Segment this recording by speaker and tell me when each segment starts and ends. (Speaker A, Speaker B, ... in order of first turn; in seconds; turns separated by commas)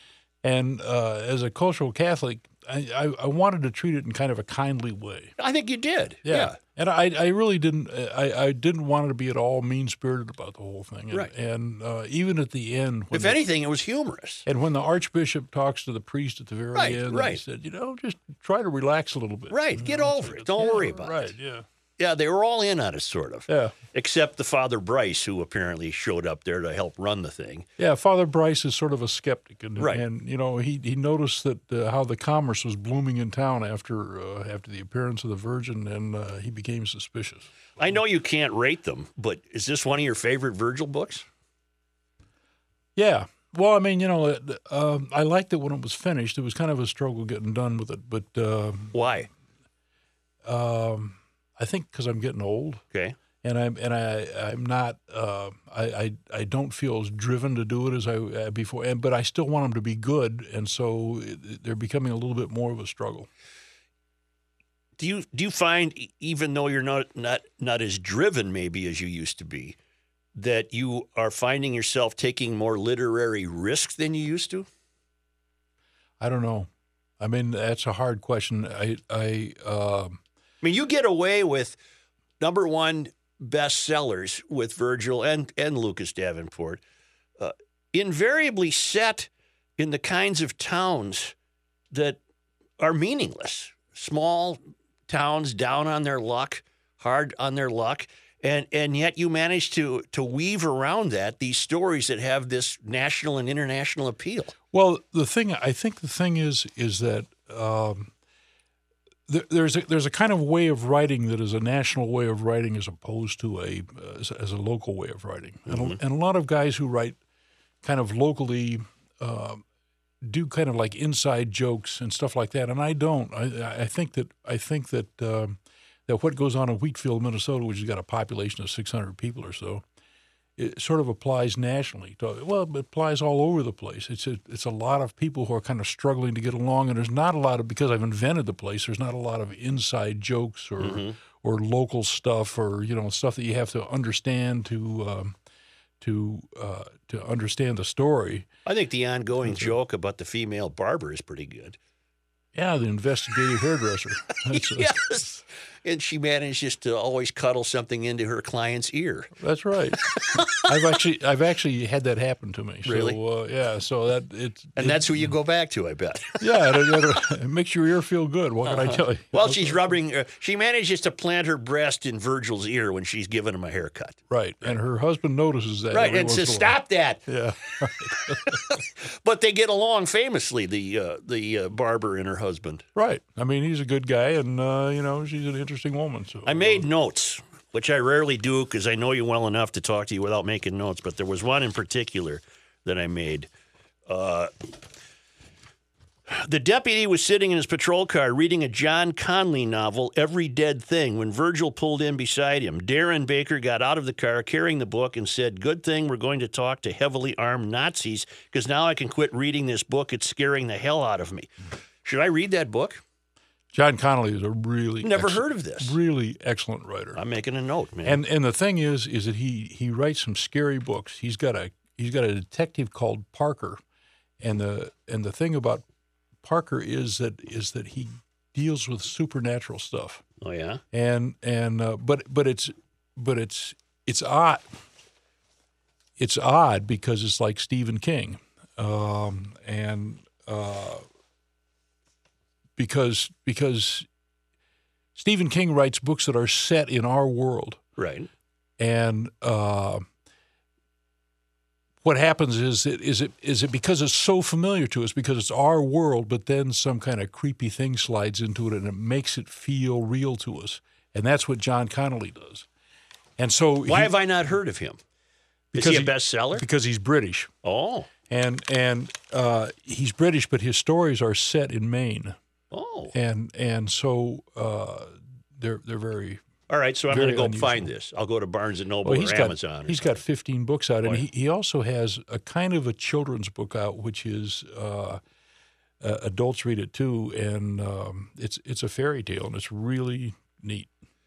Speaker A: 0.4-5.3, Speaker B: 5.4-6.6, Speaker A: 6.2-13.4, Speaker B: 13.1-14.4, Speaker A: 14.4-21.6, Speaker B: 16.7-17.4, Speaker B: 19.5-21.3, Speaker B: 22.0-27.7, Speaker A: 23.5-23.7, Speaker A: 27.8-37.5, Speaker B: 29.8-30.0, Speaker B: 37.8-41.2, Speaker A: 43.0-49.1, Speaker B: 48.9-49.3, Speaker A: 50.4-52.8, Speaker A: 53.4-63.3, Speaker B: 65.0-69.8, Speaker B: 70.3-74.7, Speaker A: 76.2-76.7, Speaker A: 77.2-80.2, Speaker B: 80.6-81.8, Speaker B: 82.4-86.8, Speaker B: 87.4-91.3, Speaker B: 91.9-92.2, Speaker B: 92.8-104.5, Speaker A: 104.7-108.1, Speaker A: 109.3-117.2, Speaker B: 115.7-116.0, Speaker A: 117.8-119.6, Speaker A: 120.2-129.8, Speaker A: 130.6-145.3, Speaker B: 140.8-141.2, Speaker A: 146.0-148.5, Speaker B: 148.7-151.8, Speaker A: 149.4-149.7, Speaker A: 152.5-155.0, Speaker B: 154.5-159.3, Speaker A: 159.4-165.3, Speaker B: 160.1-160.5, Speaker B: 162.8-163.2, Speaker B: 164.8-166.8, Speaker A: 166.4-169.9, Speaker B: 168.7-174.8, Speaker A: 174.3-178.7, Speaker B: 175.9-177.3, Speaker B: 178.1-182.8, Speaker A: 182.9-186.8, Speaker B: 186.4-193.5, Speaker B: 194.1-194.5, Speaker B: 196.3-211.5, Speaker B: 212.0-213.0, Speaker A: 213.7-217.2, Speaker B: 215.0-215.9, Speaker B: 217.1-218.2, Speaker A: 218.0-223.8, Speaker A: 224.4-225.8, Speaker A: 226.4-230.2, Speaker B: 230.4-230.8, Speaker A: 230.9-234.6, Speaker A: 236.2-241.0, Speaker A: 242.8-244.1, Speaker A: 245.2-247.8, Speaker B: 248.0-248.3, Speaker A: 248.8-250.1, Speaker A: 252.0-262.7, Speaker A: 263.4-264.1, Speaker B: 263.9-265.0, Speaker A: 265.7-267.5, Speaker B: 265.7-266.6, Speaker B: 267.6-268.1, Speaker A: 268.3-272.4, Speaker B: 272.7-273.1, Speaker A: 273.1-276.4, Speaker B: 276.7-280.2, Speaker A: 277.1-277.9, Speaker A: 279.0-285.2, Speaker A: 286.0-290.9